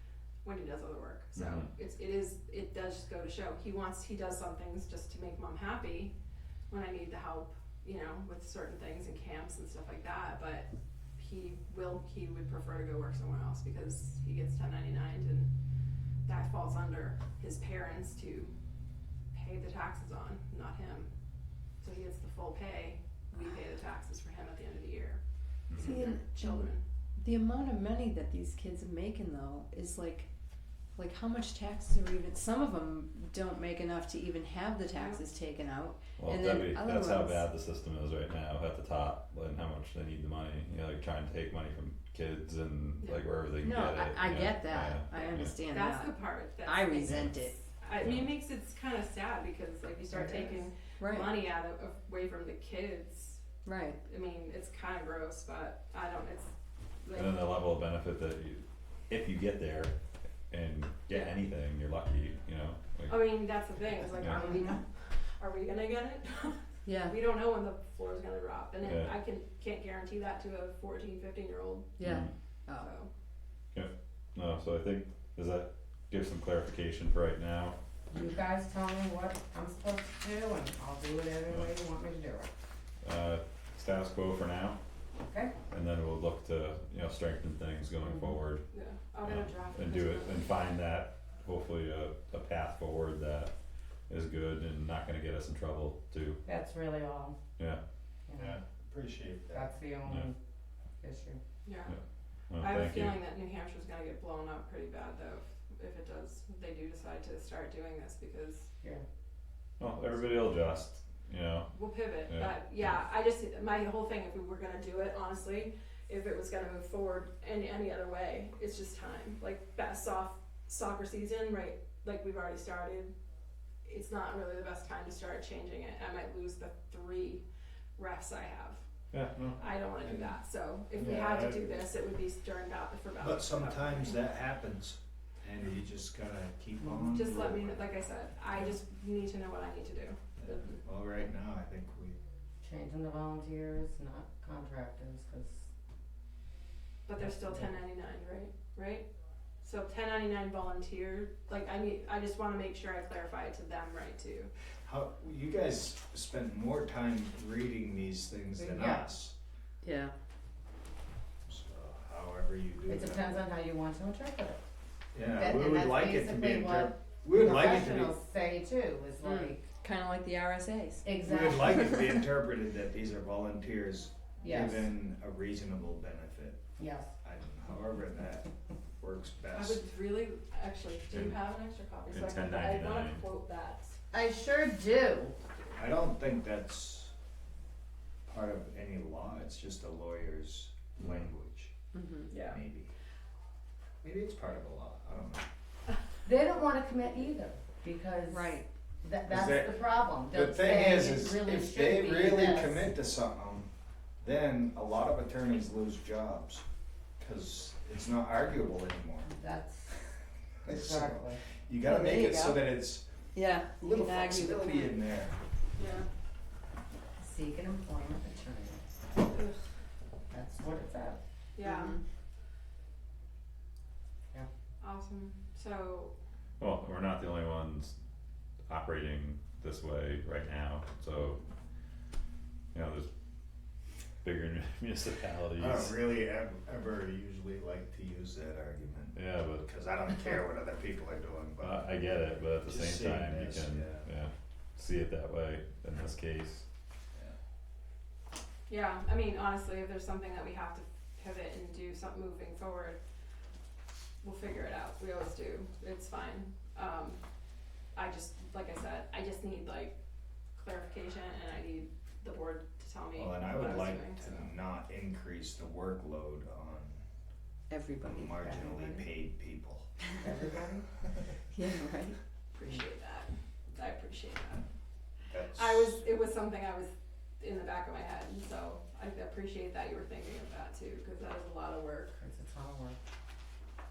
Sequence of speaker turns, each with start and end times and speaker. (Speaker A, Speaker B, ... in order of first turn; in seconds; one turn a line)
Speaker A: 0.4-6.1
Speaker B: 1.4-1.7
Speaker A: 6.7-15.5
Speaker A: 16.3-18.5
Speaker A: 19.3-21.1
Speaker A: 21.8-25.2
Speaker B: 25.7-26.0
Speaker A: 25.7-26.8
Speaker C: 25.8-30.3
Speaker C: 30.9-37.5
Speaker A: 35.0-35.2
Speaker B: 36.2-45.6
Speaker C: 43.6-47.6
Speaker A: 45.7-53.5
Speaker B: 48.0-48.3
Speaker D: 50.1-50.6
Speaker C: 51.0-51.4
Speaker C: 53.6-54.0
Speaker A: 54.0-57.5
Speaker B: 57.1-59.9
Speaker B: 60.5-63.4
Speaker A: 63.1-72.0
Speaker B: 64.2-64.4
Speaker C: 64.2-64.8
Speaker C: 66.8-67.2
Speaker B: 68.8-69.1
Speaker C: 72.0-72.9
Speaker B: 72.0-72.3
Speaker A: 72.8-73.1
Speaker B: 73.7-77.8
Speaker D: 78.1-82.5
Speaker B: 83.0-84.8
Speaker D: 85.3-85.5
Speaker B: 85.7-88.6
Speaker D: 88.0-88.4
Speaker A: 88.7-90.5
Speaker B: 89.2-93.5
Speaker B: 94.1-96.4
Speaker D: 96.5-97.4
Speaker D: 98.3-98.6
Speaker E: 98.4-99.7
Speaker D: 99.5-100.4
Speaker B: 100.0-100.3
Speaker D: 101.0-101.4
Speaker A: 101.7-102.0
Speaker B: 101.9-103.2
Speaker A: 102.6-108.7
Speaker B: 109.8-112.5
Speaker A: 111.7-123.1
Speaker A: 123.8-127.4
Speaker A: 128.0-128.9
Speaker B: 129.1-129.4
Speaker E: 129.3-130.4
Speaker A: 129.6-134.2
Speaker E: 130.9-131.7
Speaker E: 133.2-138.0
Speaker D: 136.8-137.1
Speaker A: 137.1-140.8
Speaker E: 140.4-142.2
Speaker D: 142.6-145.7
Speaker A: 147.1-149.1
Speaker D: 147.2-147.7
Speaker A: 149.6-154.5
Speaker E: 154.9-159.3
Speaker D: 158.6-159.1
Speaker C: 159.8-160.1
Speaker E: 161.5-163.4
Speaker D: 162.9-164.6
Speaker E: 165.1-168.2
Speaker D: 165.3-169.7
Speaker C: 169.2-172.2
Speaker D: 171.0-171.9
Speaker E: 171.2-176.6
Speaker D: 174.4-174.9
Speaker D: 176.8-177.1
Speaker E: 177.2-179.8
Speaker A: 179.5-184.0
Speaker B: 181.1-181.4
Speaker B: 182.1-183.2
Speaker D: 184.1-185.3
Speaker E: 185.8-187.1
Speaker E: 188.3-191.7
Speaker B: 191.0-191.3
Speaker C: 191.9-192.3
Speaker A: 192.3-192.6
Speaker E: 192.4-192.9
Speaker E: 194.0-195.4
Speaker D: 196.2-202.9
Speaker C: 198.3-198.7
Speaker E: 199.3-203.7
Speaker E: 204.2-206.6
Speaker E: 207.2-209.3
Speaker D: 209.3-210.0
Speaker E: 210.6-213.2
Speaker D: 210.7-211.4
Speaker C: 211.8-212.8
Speaker C: 213.3-215.1
Speaker E: 213.8-215.4
Speaker A: 215.8-216.1
Speaker D: 217.2-218.8
Speaker A: 219.3-219.6
Speaker D: 220.3-221.2
Speaker A: 221.6-222.0
Speaker C: 221.6-222.0
Speaker A: 224.8-226.1
Speaker B: 226.6-227.9
Speaker B: 228.7-231.4
Speaker B: 232.7-233.1
Speaker B: 234.2-236.0
Speaker E: 235.6-241.9
Speaker B: 239.1-239.7
Speaker B: 241.6-246.7
Speaker E: 242.6-244.1
Speaker A: 248.7-253.0
Speaker A: 254.2-257.2
Speaker A: 257.9-260.0
Speaker A: 260.6-264.5
Speaker E: 263.1-267.0
Speaker C: 267.7-268.4
Speaker E: 268.0-269.9
Speaker D: 268.4-269.0
Speaker D: 270.2-270.9
Speaker C: 271.5-272.2
Speaker A: 272.5-274.6
Speaker E: 275.3-276.0
Speaker A: 275.5-282.2
Speaker D: 282.2-283.0